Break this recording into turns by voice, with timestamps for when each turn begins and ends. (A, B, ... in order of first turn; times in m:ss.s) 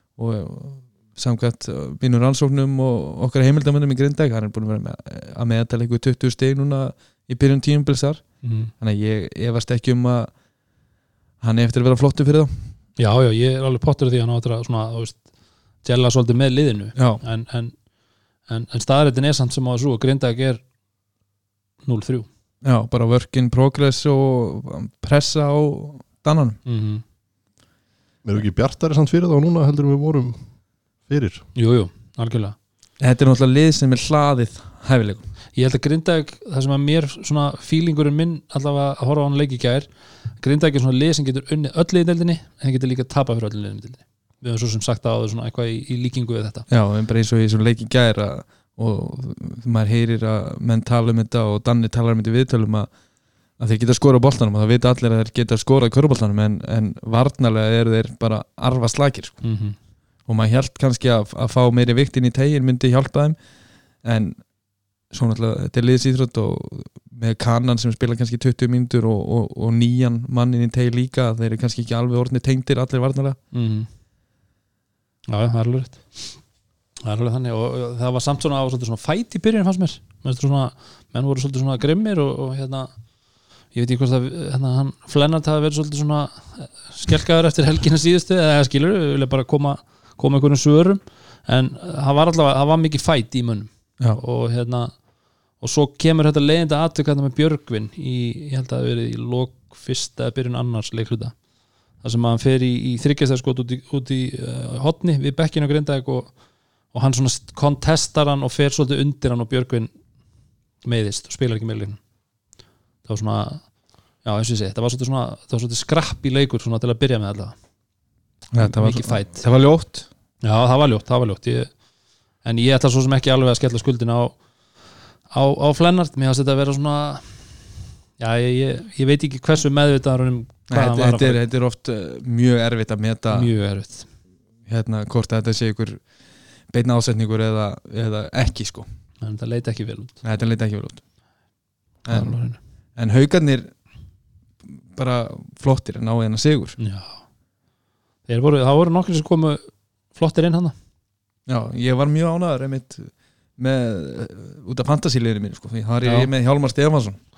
0:00.2-0:08.2 A
0:08.4-0:08.7 B
0:08.8-0:10.3 A
0:11.4-0:12.7 A
0:13.0-0:15.2 B
0:15.8-0:17.8 B
0:17.0-0:17.2 A
0:18.5-0:20.6 B
0:21.9-0:22.3 B
0:22.6-0:26.6 A
0:26.7-0:27.0 B
0:28.2-0:30.4 C
0:31.1-0:31.4 C
0:31.6-0:32.6 B
0:33.0-0:35.3 A
0:35.6-0:39.9 B
0:40.4-0:46.7 B
0:46.7-0:52.9 A
0:53.6-0:59.4 A
0:59.4-0:59.8 B
1:00.3-1:03.4 A
1:04.0-1:04.4 A
1:05.1-1:13.4 A
1:13.5-1:13.9 B
1:15.3-1:16.4 B
1:17.0-1:22.9 B
1:23.7-1:35.0 B
1:35.6-1:41.4 B
1:42.0-1:46.3 B
1:46.9-1:49.9 B
1:50.8-1:52.0 B
1:53.1-1:53.6 B
1:54.2-1:57.6 B
1:58.5-2:00.1 A
1:58.6-1:59.4 B
2:00.4-2:01.7 B
2:02.4-2:04.4 B
2:05.3-2:07.7 B
2:08.2-2:11.4 B
2:10.7-2:13.5 A
2:13.3-2:14.1 B
2:14.7-2:16.0 A
2:16.7-2:18.9 A
2:19.2-2:20.2 B
2:20.2-2:21.0 A
2:22.1-2:22.4 A
2:22.1-2:22.6 B
2:23.0-2:23.7 A
2:24.9-2:26.8 A
2:26.8-2:27.2 B
2:28.3-2:30.8 B
2:31.5-2:37.2 A
2:36.0-2:36.3 B